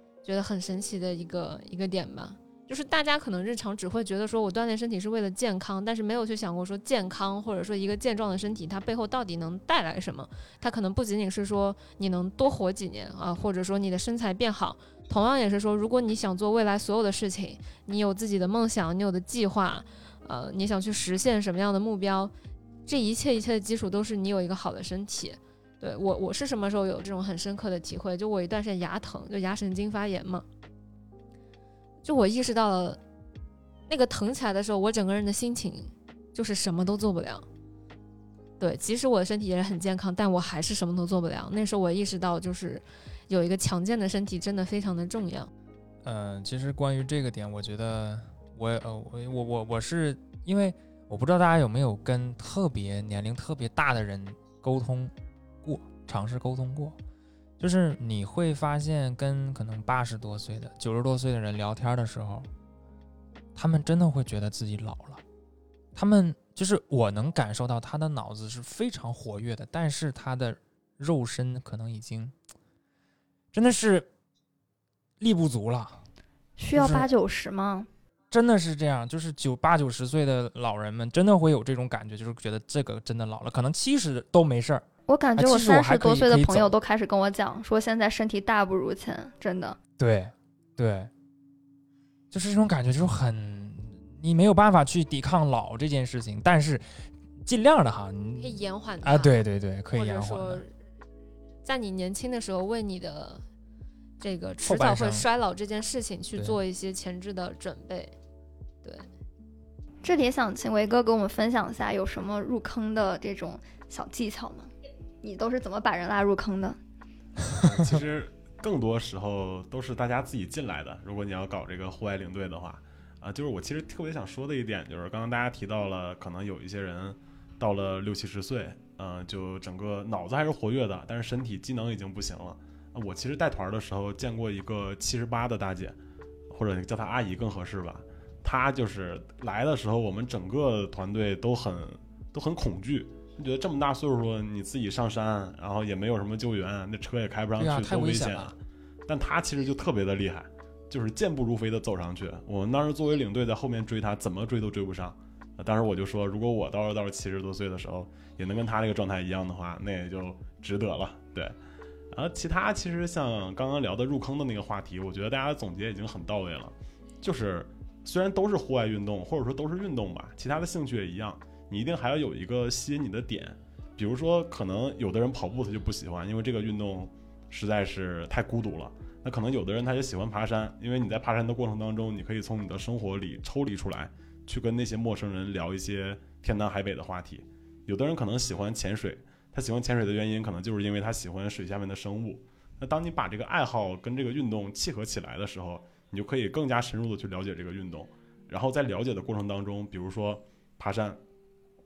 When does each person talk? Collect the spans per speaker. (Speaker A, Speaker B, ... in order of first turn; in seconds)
Speaker A: 0.2-22.3, 22.9-30.4, 32.0-33.0, 33.9-37.5, 38.6-45.5, 98.4-100.7, 101.6-103.5, 104.2-108.1
Speaker B: 46.0-55.1, 55.6-57.0, 57.6-62.5, 63.5-65.2, 66.0-72.3, 73.5-74.1, 75.2-76.0, 76.7-77.1, 78.3-84.8, 85.4-86.7, 90.0-91.1, 92.3-100.6, 104.7-105.3, 147.6-148.5
Speaker C: 76.6-77.9, 85.1-89.8, 110.0-114.7, 115.2-116.8
Speaker D: 117.6-136.0, 136.5-161.6, 162.1-201.2